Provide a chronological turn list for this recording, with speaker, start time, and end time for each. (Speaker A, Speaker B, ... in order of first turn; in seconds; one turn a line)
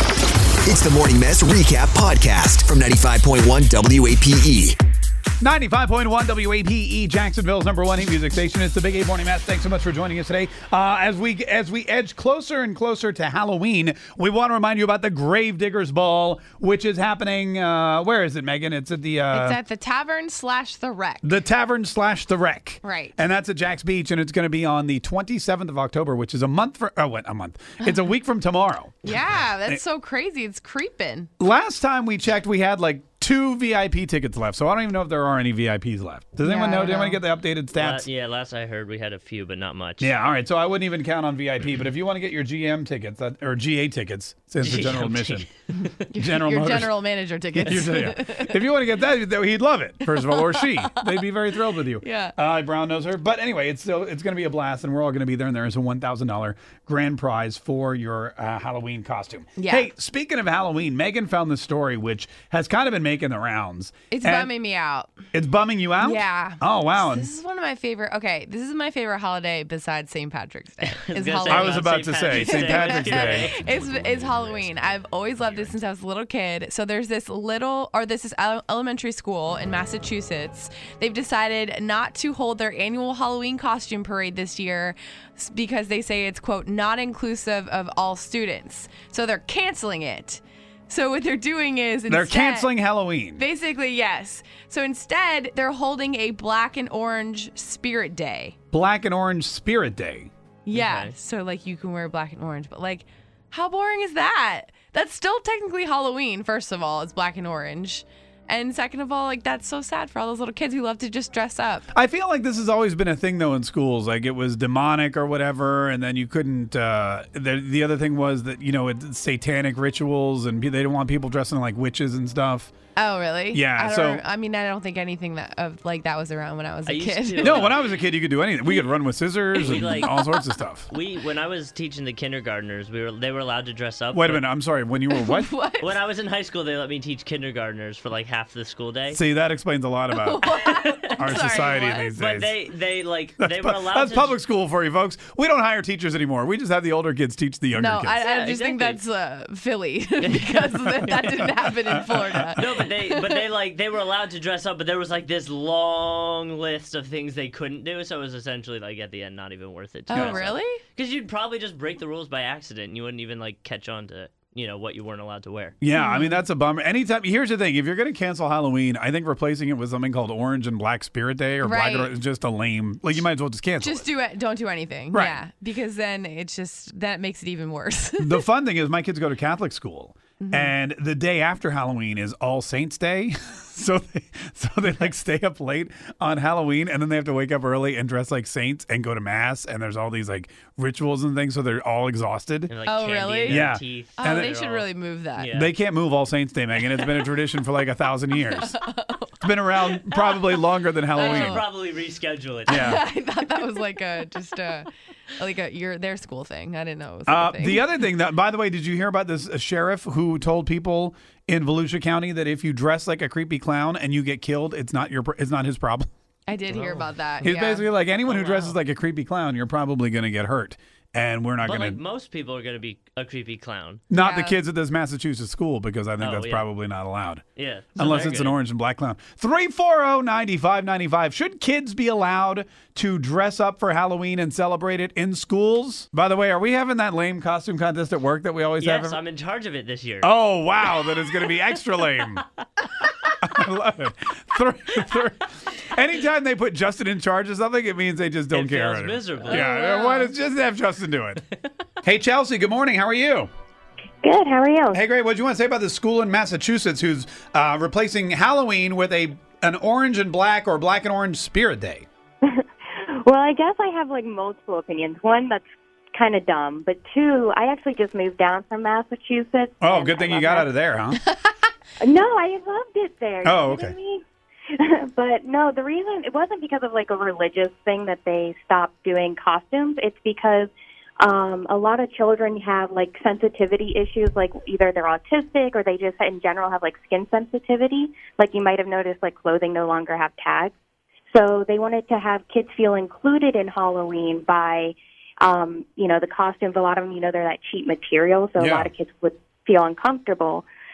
Speaker A: 0.7-4.8
Speaker B: 5.4-19.6
Speaker C: 19.3-21.4
Speaker B: 21.2-29.8
Speaker C: 22.8-23.1
Speaker C: 29.1-31.3
Speaker B: 31.4-38.1
Speaker C: 36.4-37.2
Speaker D: 37.7-40.1
Speaker B: 40.0-45.5
Speaker D: 44.6-45.9
Speaker C: 46.1-48.6
Speaker B: 46.2-64.5
Speaker C: 50.0-51.2
Speaker C: 52.0-52.4
Speaker C: 59.6-59.9
Speaker C: 64.1-65.1
Speaker B: 65.3-67.3
Speaker C: 66.0-92.8
Speaker D: 71.0-74.6
Speaker B: 71.5-73.5
Speaker B: 92.1-93.4
Speaker C: 93.3-98.5
Speaker B: 98.7-100.3
Speaker C: 100.7-111.9
Speaker D: 100.7-101.1
Speaker B: 111.9-122.7
Speaker C: 123.0-127.7
Speaker B: 123.5-124.2
Speaker D: 126.9-127.9
Speaker B: 127.4-130.9
Speaker C: 129.7-130.3
Speaker D: 129.7-130.1
Speaker D: 130.9-134.4
Speaker B: 134.1-135.5
Speaker C: 135.1-136.0
Speaker D: 135.8-139.2
Speaker B: 139.1-140.4
Speaker C: 140.1-142.1
Speaker B: 141.1-142.6
Speaker D: 142.1-144.4
Speaker B: 143.4-148.2
Speaker C: 147.7-153.3
Speaker D: 148.2-149.0
Speaker D: 150.2-151.7
Speaker B: 151.9-152.7
Speaker D: 152.4-165.8
Speaker C: 160.1-160.8
Speaker B: 160.1-160.5
Speaker B: 165.8-174.1
Speaker C: 165.9-166.4
Speaker C: 171.6-172.1
Speaker C: 173.8-178.4
Speaker B: 175.1-175.4
Speaker B: 178.2-192.7
Speaker C: 180.4-180.7
Speaker D: 192.7-195.7
Speaker C: 192.8-195.5
Speaker B: 193.5-194.6
Speaker B: 195.5-198.8
Speaker C: 198.4-201.7
Speaker B: 199.4-201.7
Speaker D: 201.2-203.0
Speaker B: 202.7-203.0
Speaker C: 202.7-207.9
Speaker B: 207.3-216.1
Speaker C: 216.5-217.9
Speaker D: 216.7-217.2
Speaker B: 217.4-222.0
Speaker D: 218.3-218.7
Speaker D: 221.6-224.0
Speaker B: 224.1-227.4
Speaker C: 224.1-224.6
Speaker D: 226.2-226.7
Speaker D: 227.6-228.6
Speaker B: 228.0-239.2
Speaker D: 238.8-240.3
Speaker B: 240.2-242.4
Speaker B: 243.4-251.4
Speaker D: 248.5-249.7
Speaker C: 249.5-250.4
Speaker B: 252.0-253.5
Speaker E: 254.2-255.0
Speaker B: 254.9-262.1
Speaker E: 263.2-265.6
Speaker E: 266.1-270.7
Speaker B: 269.8-271.2
Speaker C: 271.2-271.5
Speaker E: 272.0-274.2
Speaker B: 273.4-274.0
Speaker E: 274.8-280.7
Speaker E: 281.2-290.7
Speaker E: 291.3-300.6
Speaker B: 298.6-298.9